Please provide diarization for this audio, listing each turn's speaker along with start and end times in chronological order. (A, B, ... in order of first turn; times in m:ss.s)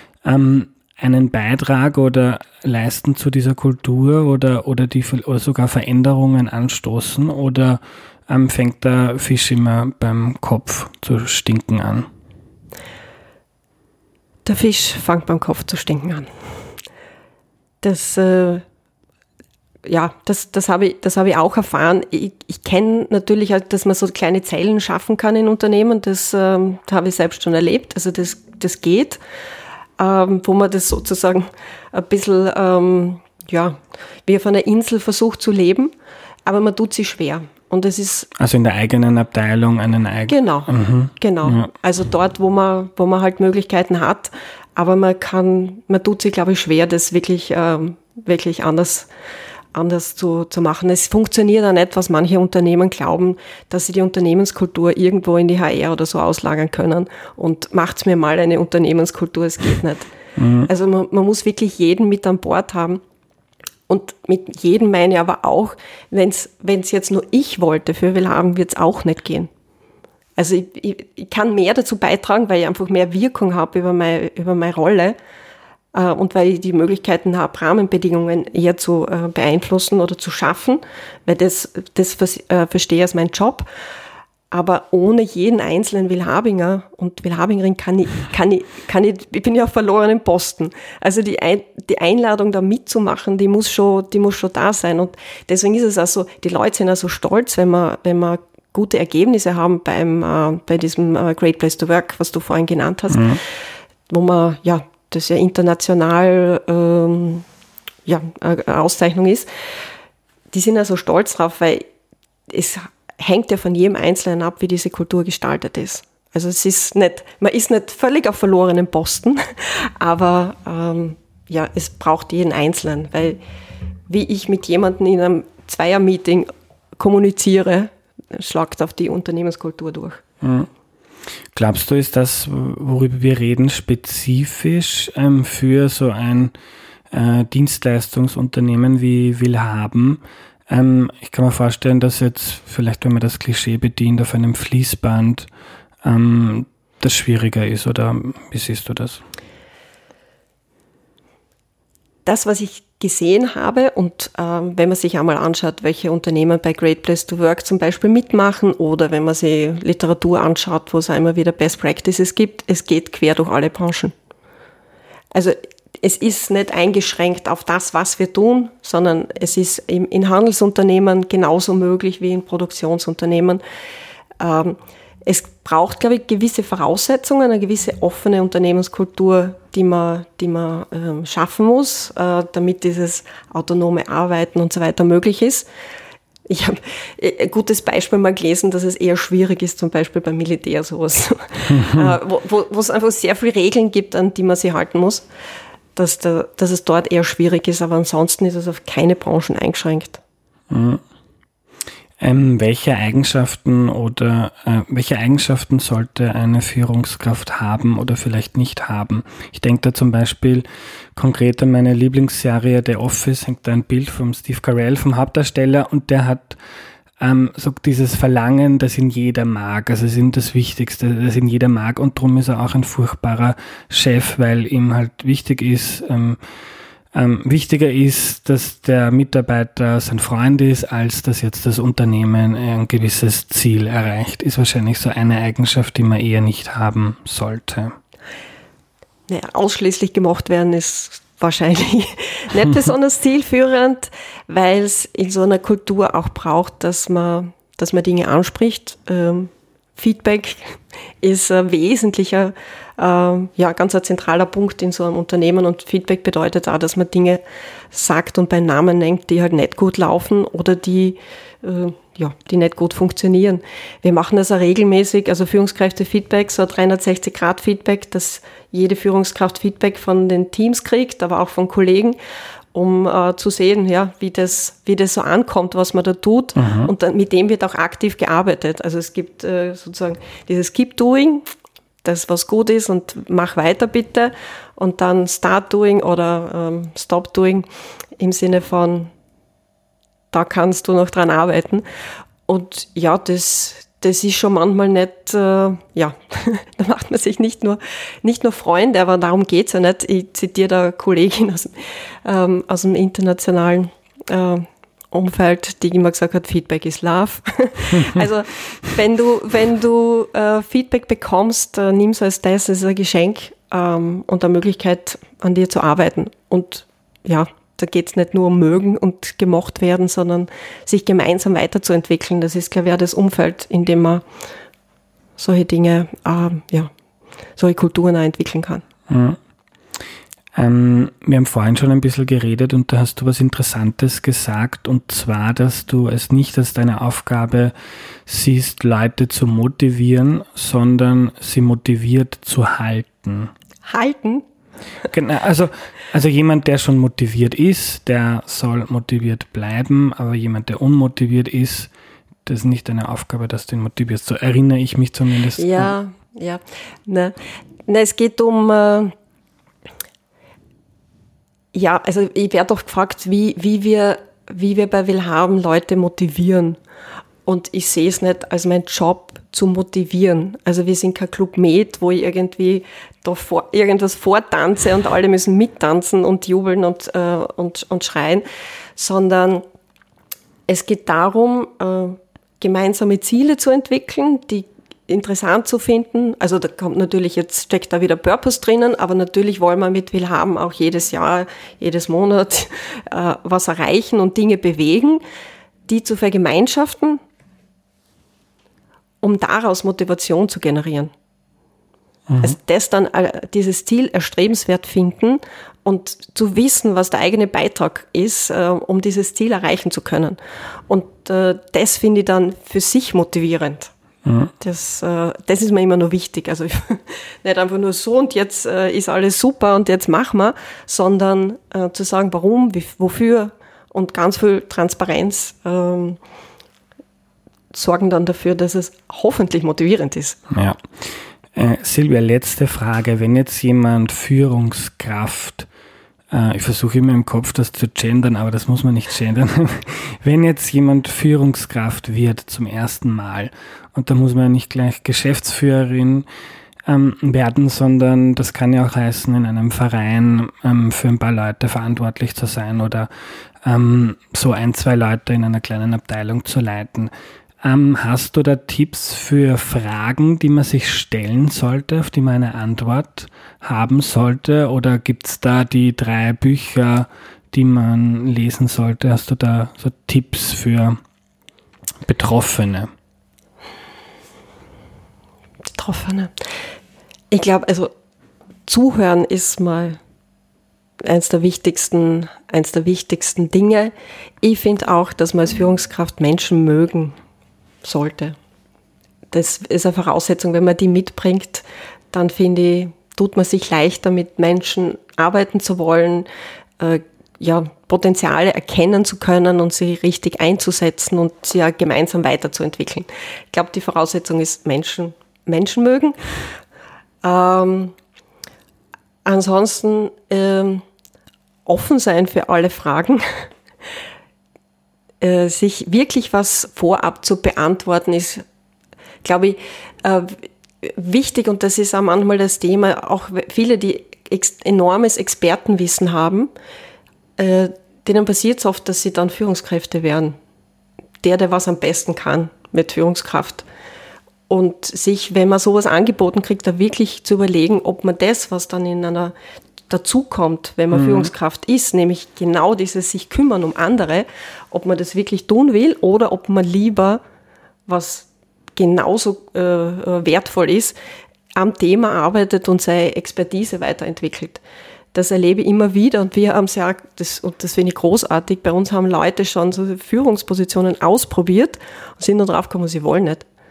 0:00.2-0:12.1 A
0:14.4-0:16.3 B
0:17.8-0:18.6 B
0:19.8-0:29.2 B
0:30.0-0:35.9 B
0:36.4-0:38.3 B
0:38.4-0:41.7 A
0:40.3-0:49.1 B
0:49.7-1:00.1 B
1:00.4-1:00.7 A
1:00.6-1:03.0 B
1:03.9-1:09.5 B
1:10.4-1:15.2 B
1:15.9-1:23.7 B
1:24.5-1:43.4 B
1:43.1-1:43.4 A
1:44.1-1:47.4 B
1:48.0-1:49.5 B
1:50.5-1:51.9 B
1:52.5-2:03.4 B
2:04.1-2:10.2 B
2:10.4-2:10.7 A
2:11.5-2:16.5 A
2:17.1-2:25.5 A
2:26.0-2:29.2 A
2:32.2-2:44.1 B
2:45.3-2:53.6 B
2:54.4-3:05.7 B
3:06.5-3:15.2 B
3:11.7-3:12.0 A
3:16.0-3:20.2 B
3:20.7-3:21.0 A
3:22.2-3:36.6 A
3:37.2-3:46.4 A
3:47.1-3:58.0 A
3:59.3-4:32.2 B
4:32.7-4:41.5 B
4:36.6-4:36.9 A
4:42.0-4:47.7 B
4:48.2-4:49.1 B
4:50.3-4:51.8 B
4:52.5-5:24.2 B
5:25.4-5:26.9 B
5:27.6-5:28.8 B
5:29.1-5:29.4 A
5:30.6-5:37.7 A
5:38.2-5:43.5 A
5:43.8-5:44.4 B
5:45.1-5:51.9 A
5:52.4-5:55.9 A
5:55.6-5:57.4 B
5:57.9-5:59.1 B
6:01.7-6:06.8 B
6:07.4-6:18.4 B
6:19.0-6:19.6 B
6:20.7-6:35.2 B
6:35.9-6:37.2 B
6:39.2-6:41.1 B
6:42.3-6:42.5 A
6:42.4-6:53.9 B
6:54.2-6:54.5 A
6:54.6-7:06.2 B
7:07.7-7:10.4 B
7:10.5-7:10.8 A
7:11.5-7:15.7 A
7:16.3-7:26.2 A
7:26.9-7:33.1 A
7:33.6-7:37.1 A
7:37.6-7:51.0 A
7:52.0-7:52.9 A
7:55.7-7:56.3 B
7:57.3-7:57.9 B
7:58.6-8:00.0 B
8:01.0-8:07.2 B
8:07.8-8:08.4 B
8:09.3-8:16.3 B
8:16.8-8:26.2 B
8:27.2-8:27.9 B
8:29.2-8:30.8 B
8:31.6-8:33.5 B
8:35.2-8:38.4 B
8:39.2-8:46.5 B
8:47.4-8:50.4 B
8:51.2-8:53.6 B
8:54.5-8:59.3 B
8:59.9-9:07.2 B
9:00.9-9:01.3 A
9:07.9-9:11.0 B
9:11.5-9:14.6 B
9:15.1-9:23.4 B